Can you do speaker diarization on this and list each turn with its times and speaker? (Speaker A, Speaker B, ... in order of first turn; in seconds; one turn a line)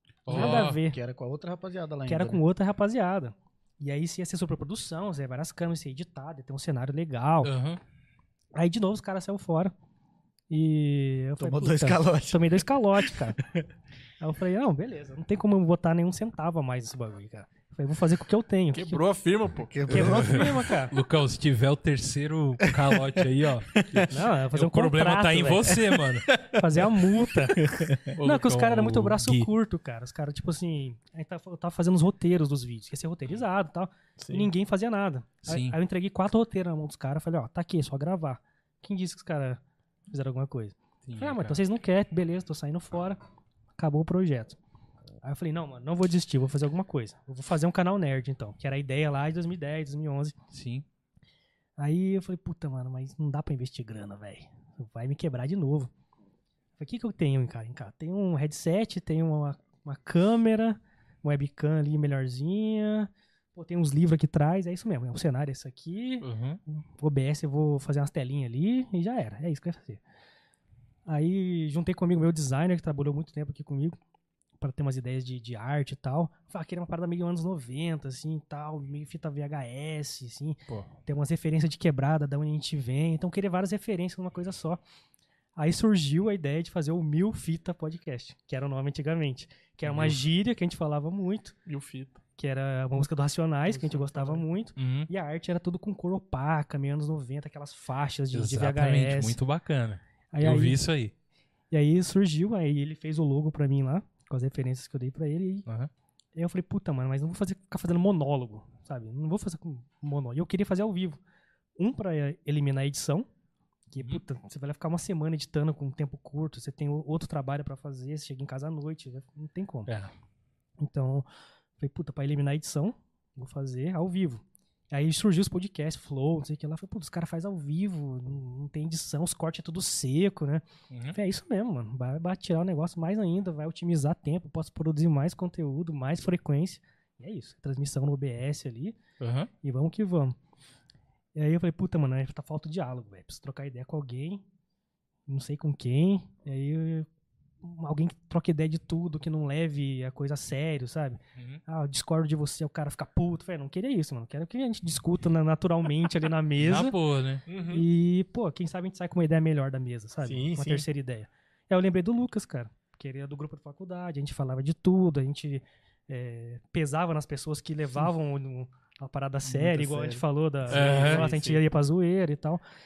Speaker A: 0.2-0.8
Speaker B: 0.3-1.0
Speaker C: 0.3-2.4
Speaker B: 2.1-7.5
Speaker A: 7.4-7.8
Speaker B: 8.5-9.7
Speaker B: 10.5-13.4
Speaker C: 11.4-13.6
Speaker B: 14.2-19.0
Speaker D: 18.7-19.7
Speaker C: 19.7-20.7
Speaker B: 19.9-20.9
Speaker A: 19.9-26.3
Speaker C: 22.7-23.2
Speaker C: 23.7-24.1
Speaker B: 24.1-25.8
Speaker C: 26.3-26.6
Speaker B: 26.4-43.2
Speaker C: 27.5-28.1
Speaker A: 28.2-29.5
Speaker D: 34.2-34.5
Speaker A: 35.4-35.8
Speaker A: 41.0-41.6
Speaker B: 43.8-44.6
Speaker B: 45.2-50.3
Speaker A: 50.5-50.8
Speaker B: 51.8-55.9
Speaker B: 56.8-70.0
Speaker A: 66.2-66.6
Speaker B: 71.0-74.0
Speaker B: 74.6-84.8
Speaker B: 85.6-91.5
Speaker A: 89.8-90.2
Speaker D: 91.7-92.2
Speaker B: 92.4-99.4
Speaker D: 93.7-94.5
Speaker A: 94.8-95.1
Speaker A: 98.3-101.1
Speaker B: 100.3-100.8
Speaker B: 101.7-105.7
Speaker B: 106.3-111.2
Speaker B: 111.8-113.3
Speaker B: 113.9-119.9
Speaker B: 120.8-121.3
Speaker B: 121.8-138.9
Speaker A: 130.9-131.2
Speaker A: 139.2-139.5
Speaker B: 139.6-140.3
Speaker B: 141.3-144.4
Speaker B: 145.3-147.1
Speaker B: 147.6-156.9
Speaker A: 151.3-151.6
Speaker A: 156.6-157.4
Speaker D: 157.5-157.8
Speaker B: 157.7-172.6
Speaker D: 160.2-160.8
Speaker C: 169.4-170.2
Speaker A: 170.7-171.3
Speaker D: 170.7-171.6